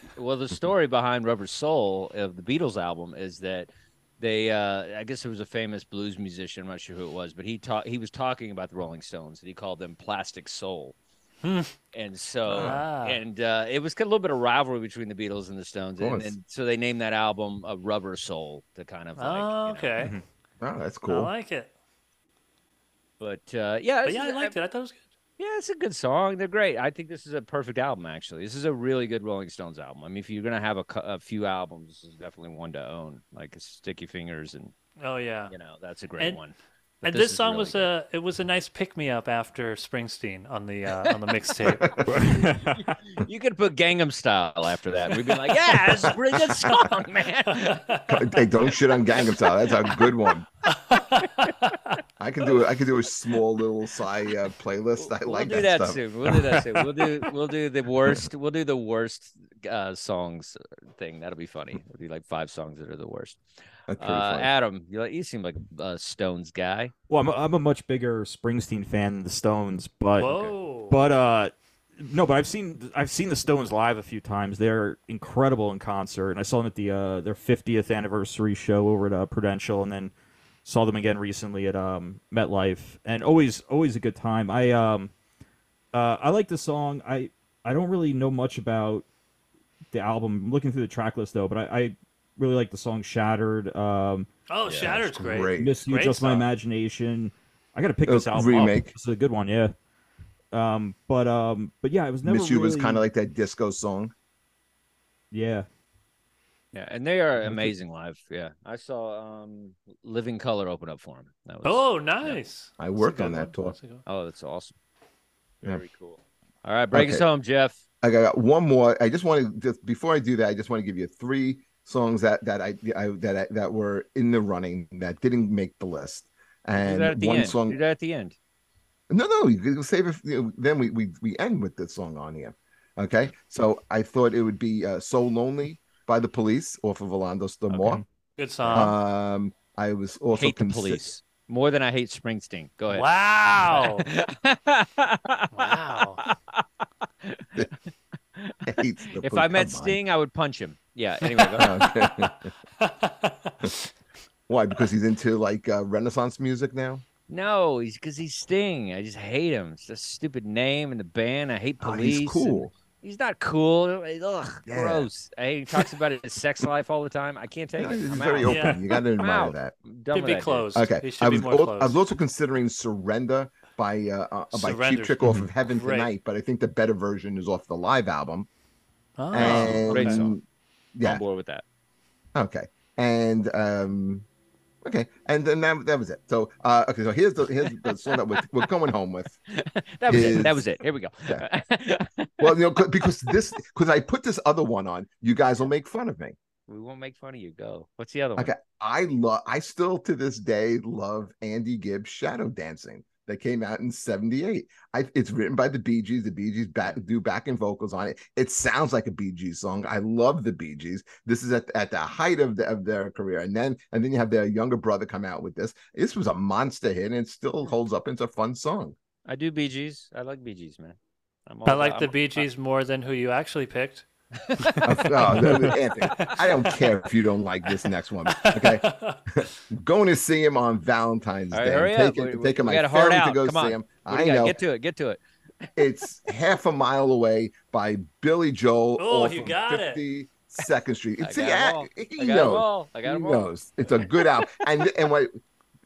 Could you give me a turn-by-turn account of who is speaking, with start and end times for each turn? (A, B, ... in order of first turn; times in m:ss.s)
0:00.2-0:11.0 A
0:11.4-0:11.7 B
0:11.9-0:19.9 A
0:12.5-0:12.8 C
0:12.6-0:13.2 B
0:16.0-0:16.4 C
0:19.2-0:20.1 B
0:20.6-0:21.3 C
0:21.1-0:21.7 B
0:23.2-0:24.5 A
0:24.0-0:25.0 B
0:25.4-0:34.7 A
0:35.0-0:35.5 B
0:35.5-0:37.9 A
0:37.0-0:41.9 B
0:41.6-0:42.1 C
0:42.0-0:42.9 D
0:42.6-0:47.8 A
0:46.1-0:46.5 C
0:47.5-0:48.4 B
0:48.1-0:50.5 C
0:50.7-0:52.0 B
0:51.2-0:51.5 A
0:52.2-0:56.8 C
0:55.0-1:03.4 A
1:03.9-1:04.5 C
1:04.0-1:06.9 A
1:07.1-1:10.3 D
1:10.2-1:11.0 B
1:10.9-1:20.1 D
1:20.6-1:25.1 D
1:25.9-1:29.0 D
1:29.9-1:34.3 D
1:34.5-1:36.4 B
1:34.7-1:35.8 C
1:35.5-1:39.7 D
1:38.0-1:38.9 C
1:40.5-1:43.0 D
1:42.2-1:44.1 C
1:45.3-1:45.7 D
1:46.7-1:52.4 A
1:51.6-1:54.0 B
1:52.8-1:53.7 C
1:54.0-1:54.7 A
1:55.6-1:57.8 A
1:56.9-1:57.2 C
1:58.0-2:07.8 C
2:06.7-2:08.4 A
2:09.1-2:18.0 C
2:18.4-2:18.9 B
2:18.6-2:21.0 C
2:20.3-2:26.6 A
2:22.9-2:24.1 B
2:25.5-2:26.2 B
2:27.2-2:27.8 A
2:28.3-2:31.8 A
2:28.6-2:30.0 C
2:31.6-2:32.5 C
2:32.0-2:32.2 B
2:32.8-2:33.9 B
2:34.5-2:37.0 C
2:37.3-2:50.7 A
2:41.8-2:42.7 C
2:44.7-2:45.1 C
2:47.8-2:49.7 C
2:48.5-2:48.8 B
2:50.1-2:52.0 B
2:50.7-2:58.5 C
2:54.5-2:56.1 B
2:59.2-3:00.2 B
2:59.3-3:00.4 C
2:59.4-3:00.4 A
3:00.9-3:01.2 C
3:01.0-3:01.6 A
3:02.3-3:04.2 C
3:04.8-3:09.4 C
3:07.7-3:08.4 A
3:09.5-3:13.4 A
3:10.1-3:10.6 C
3:12.4-3:16.4 C
3:16.7-3:18.5 A
3:18.4-3:39.0 C
3:39.2-3:42.4 A
3:41.6-3:46.8 B
3:44.8-3:54.6 C
3:48.3-3:49.4 B
3:51.5-3:55.2 A
3:55.8-4:05.3 C
3:59.0-4:00.0 B
4:01.2-4:03.5 A